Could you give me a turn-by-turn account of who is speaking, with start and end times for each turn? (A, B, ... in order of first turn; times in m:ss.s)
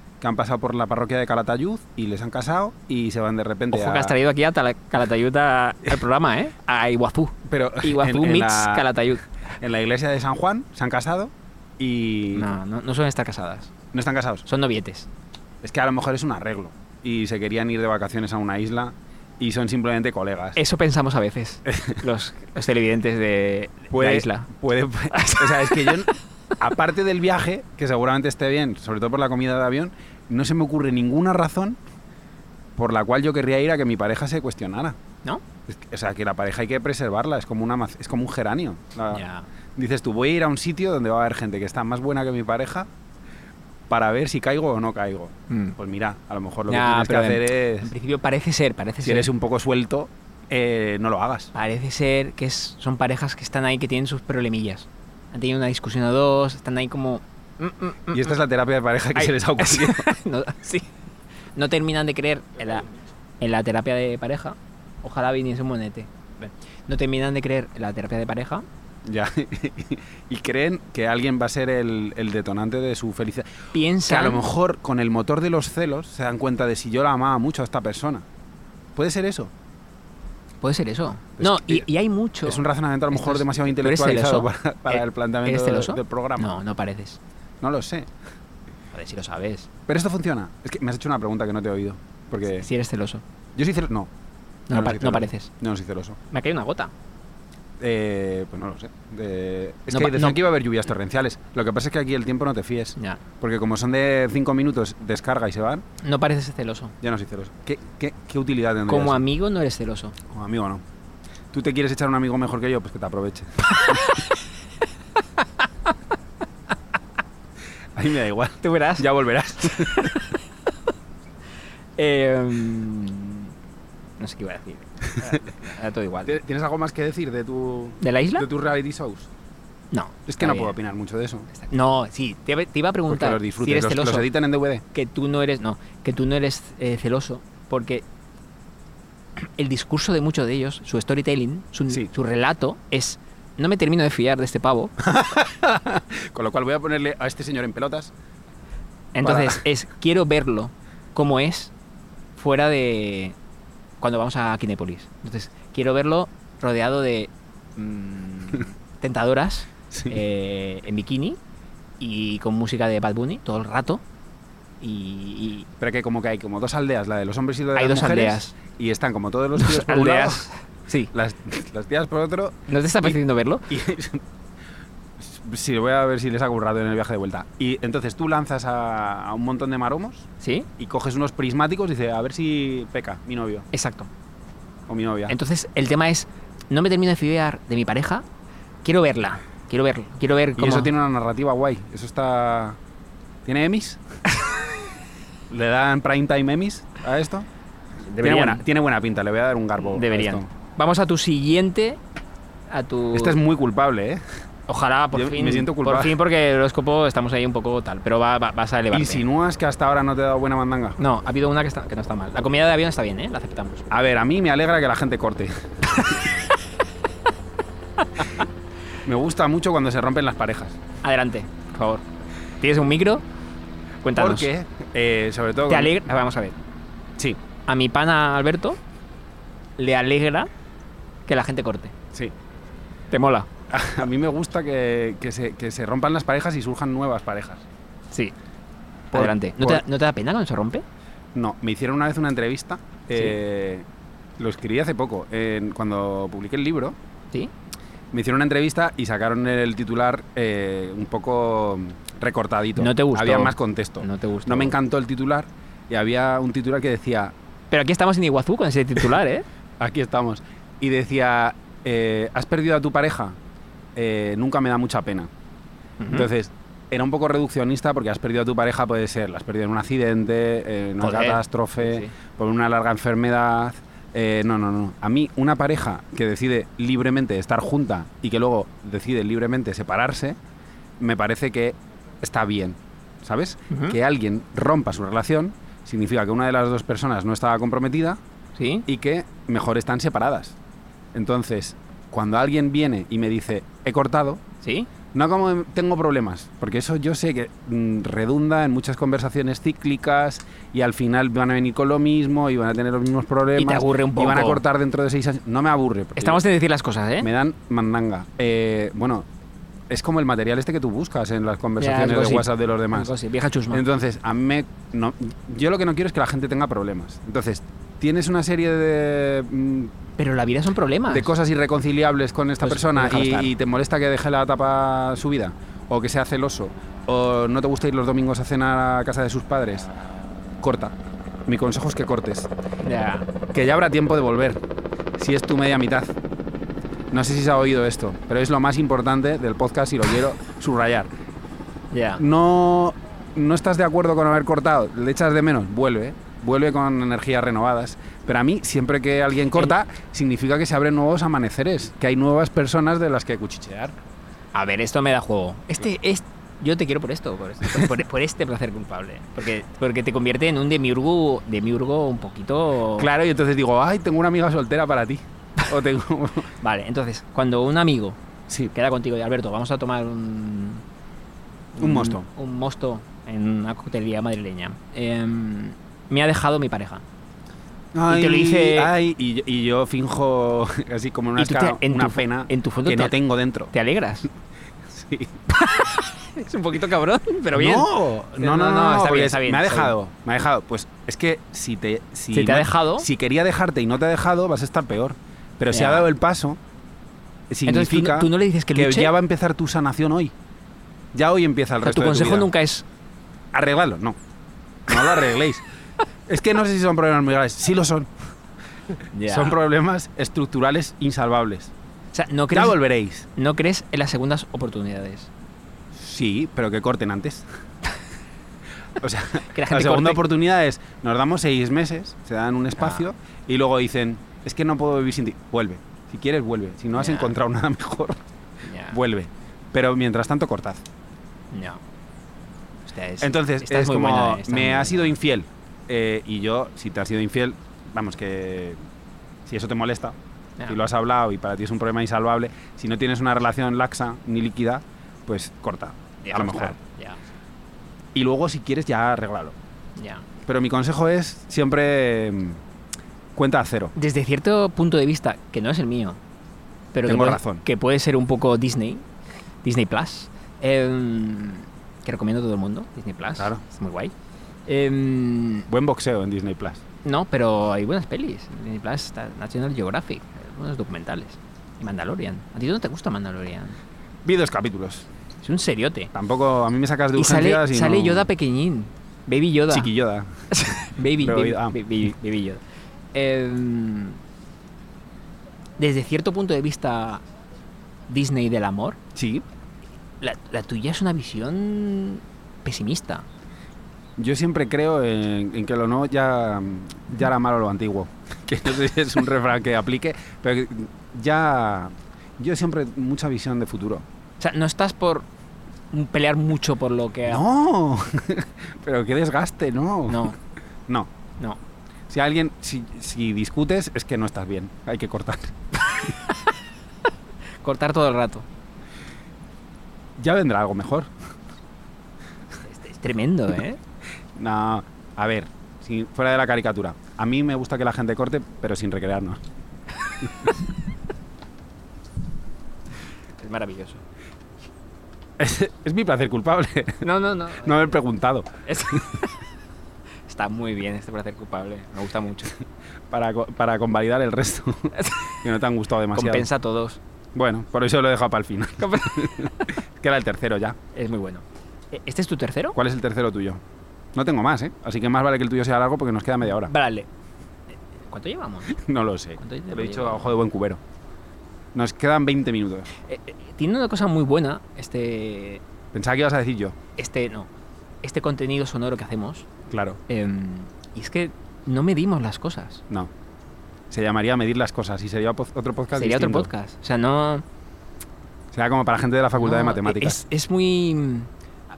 0:00.2-0:04.2 A
0:03.7-0:09.2 B
0:07.5-0:08.9 A
0:09.6-0:12.5 A
0:12.3-0:13.7 B
0:13.9-0:14.5 A
0:14.5-0:15.1 B
0:15.6-0:20.6 A
0:20.6-0:24.5 B
0:21.7-0:22.0 A
0:23.9-0:31.8 A
0:25.1-0:26.1 B
0:32.8-0:35.0 A
0:35.7-0:39.2 A
0:39.1-0:39.5 B
0:39.8-0:42.9 A
0:43.9-0:47.9 A
0:45.5-0:45.8 B
0:46.7-0:49.3 B
0:49.0-0:51.5 A
0:51.5-0:58.4 B
0:58.1-1:00.1 A
0:59.2-1:00.9 B
1:01.6-1:08.7 B
1:09.0-1:18.2 A
1:13.7-1:14.4 B
1:19.0-1:19.5 A
1:20.6-1:27.2 B
1:21.4-1:21.9 A
1:22.4-1:26.5 A
1:27.6-1:28.1 A
1:28.9-1:29.7 B
1:29.9-1:32.7 A
1:32.5-1:33.2 B
1:33.6-1:34.1 A
1:34.7-1:35.5 B
1:34.7-1:36.2 A
1:36.3-1:36.9 B
1:37.8-1:45.8 A
1:39.9-1:40.4 B
1:46.0-1:47.0 B
1:47.0-1:49.2 A
1:48.9-1:50.2 B
1:50.3-1:50.8 A
1:51.5-1:54.0 A
1:53.8-1:54.4 B
1:55.4-1:55.9 B
1:57.9-2:00.2 A
1:58.6-1:59.1 B
1:59.6-2:00.4 B
2:02.0-2:03.5 B
2:04.2-2:06.4 B
2:06.3-2:09.3 A
2:08.0-2:08.5 B
2:09.9-2:10.8 B
2:10.3-2:11.5 A
2:11.5-2:14.3 B
2:13.1-2:14.8 A
2:14.9-2:18.0 B
2:19.4-2:25.0 B
2:25.0-2:28.1 A
2:29.1-2:31.7 B
2:29.2-2:29.6 A
2:32.4-2:33.4 B
2:34.0-2:41.4 B
2:39.9-2:40.2 A
2:42.0-2:44.0 B
2:44.8-2:45.7 B
2:45.8-2:50.5 A
2:47.7-2:48.6 B
2:49.6-2:51.1 B
2:51.1-2:53.2 A
2:52.7-2:53.7 B
2:53.7-2:54.2 A
2:55.2-3:00.3 A
3:00.4-3:00.7 B
3:00.8-3:03.7 A
3:03.7-3:04.1 B
3:04.9-3:05.4 A
3:05.3-3:08.2 B
3:08.8-3:10.9 B
3:10.6-3:12.8 A
3:13.4-3:14.0 A
3:15.5-3:17.5 A
3:18.0-3:18.6 B
3:18.2-3:20.5 A
3:19.8-3:22.0 B
3:22.7-3:23.4 B
3:23.1-3:24.2 A
3:24.7-3:29.2 B
3:25.1-3:26.2 A
3:28.9-3:31.0 A
3:31.0-3:33.9 B
3:33.9-3:36.2 A
3:38.2-3:38.4 B
3:39.0-3:40.8 A
3:41.0-3:42.0 B
3:42.6-3:43.2 B
3:44.0-3:44.5 B
3:44.2-3:46.0 A
3:45.7-3:46.6 B
3:47.7-3:48.8 B
3:49.8-3:50.5 B
3:51.3-3:52.0 B
3:53.1-3:53.5 B
3:53.7-3:57.6 A
3:59.1-3:59.8 A
3:59.1-4:00.8 B
4:01.3-4:03.9 A
4:04.4-4:07.0 A
4:08.1-4:17.3 A
4:12.8-4:14.8 B
4:17.7-4:19.4 B
4:19.8-4:23.4 A
4:24.0-4:25.3 A
4:26.0-4:26.3 B
4:26.1-4:40.4 A
4:31.0-4:32.1 B
4:41.0-4:48.2 A
4:43.7-4:44.0 B
4:48.6-4:48.9 B
4:48.9-4:50.6 A
4:51.1-4:54.4 A
4:54.6-4:54.9 B
4:55.1-5:06.4 A
5:03.6-5:04.6 B
5:06.2-5:07.3 B
5:07.2-5:09.3 A
5:09.9-5:13.1 A
5:11.8-5:13.8 B
5:13.7-5:19.9 A
5:20.2-5:21.3 B
5:21.1-5:29.9 A
5:22.6-5:23.5 B
5:30.6-5:31.0 A
5:31.5-5:32.5 A
5:32.8-5:33.3 B
5:33.5-5:34.6 A
5:35.2-5:36.2 A
5:37.1-5:41.1 A
5:41.9-5:42.2 B
5:42.2-5:54.0 A
5:54.5-6:03.1 B
6:03.0-6:06.5 A
6:06.6-6:08.2 B
6:08.7-6:10.8 B
6:11.7-6:17.0 B
6:11.8-6:12.2 A
6:17.9-6:23.7 A
6:18.1-6:18.9 B
6:21.4-6:23.2 B
6:23.7-6:24.3 B
6:24.8-6:25.4 A
6:25.5-6:29.9 B
6:27.5-6:36.6 A
6:32.3-6:33.1 B
6:35.7-6:36.1 B
6:37.5-6:40.3 A
6:37.7-6:39.1 B
6:41.1-6:42.5 A
6:41.8-6:42.8 B
6:43.5-6:44.2 A
6:44.9-6:45.6 A
6:46.3-6:48.1 A
6:49.1-6:49.6 B
6:49.3-6:51.7 A
6:52.1-6:52.8 B
6:52.5-6:53.3 A
6:53.4-6:55.3 B
6:55.9-6:57.5 A
6:59.0-7:08.2 A
6:59.5-7:00.2 B
7:02.8-7:03.0 B
7:06.9-7:07.4 B
7:08.6-7:09.0 B
7:08.9-7:10.9 A
7:11.5-7:11.8 B
7:12.9-7:15.2 B
7:13.2-7:18.8 A
7:19.5-7:26.8 A
7:26.2-7:27.2 B
7:28.1-7:29.6 A
7:30.0-7:30.3 B
7:30.4-7:32.6 A
7:33.4-7:33.9 A
7:34.0-7:36.2 B
7:36.9-7:39.1 B
7:37.1-7:37.6 A
7:39.6-7:44.1 B
7:43.4-7:43.6 A
7:44.7-7:45.7 B
7:45.7-7:46.8 A
7:47.0-7:53.8 B
7:54.2-7:55.1 A
7:55.4-7:56.1 B
7:56.1-7:58.3 A
7:57.2-7:59.9 B
7:59.7-8:00.5 A
8:00.5-8:02.6 B
8:01.1-8:01.8 A
8:03.1-8:04.2 B
8:05.8-8:07.2 B
8:08.1-8:09.0 B
8:09.2-8:09.4 A
8:10.2-8:13.3 B
8:14.2-8:24.0 A
8:24.4-8:25.3 B
8:25.9-8:27.4 B
8:27.3-8:30.3 A
8:30.1-8:30.4 B
8:32.1-8:35.9 A
8:37.6-8:38.5 B
8:40.2-8:41.1 A
8:42.6-8:43.8 B
8:44.4-8:49.4 A
8:53.4-8:54.0 B
8:55.4-8:57.1 A
8:57.0-8:58.0 B
8:57.6-8:59.0 A
8:58.7-8:59.3 B
9:00.3-9:02.6 B
9:03.1-9:06.5 A
9:06.1-9:07.0 B
9:07.4-9:10.8 A
9:08.8-9:09.7 B
9:10.9-9:12.8 B
9:12.8-9:13.6 A
9:14.1-9:16.7 A
9:16.6-9:17.1 B
9:17.7-9:18.8 B
9:18.7-9:20.8 A
9:19.4-9:20.4 B
9:21.7-9:22.9 A
9:23.0-9:25.6 B
9:25.9-9:26.8 A
9:27.0-9:27.5 B
9:28.0-9:29.5 B
9:29.7-9:30.0 A
9:30.1-9:32.8 B
9:33.9-9:36.5 A
9:35.9-9:37.4 B
9:38.5-9:40.2 A
9:39.4-9:41.3 B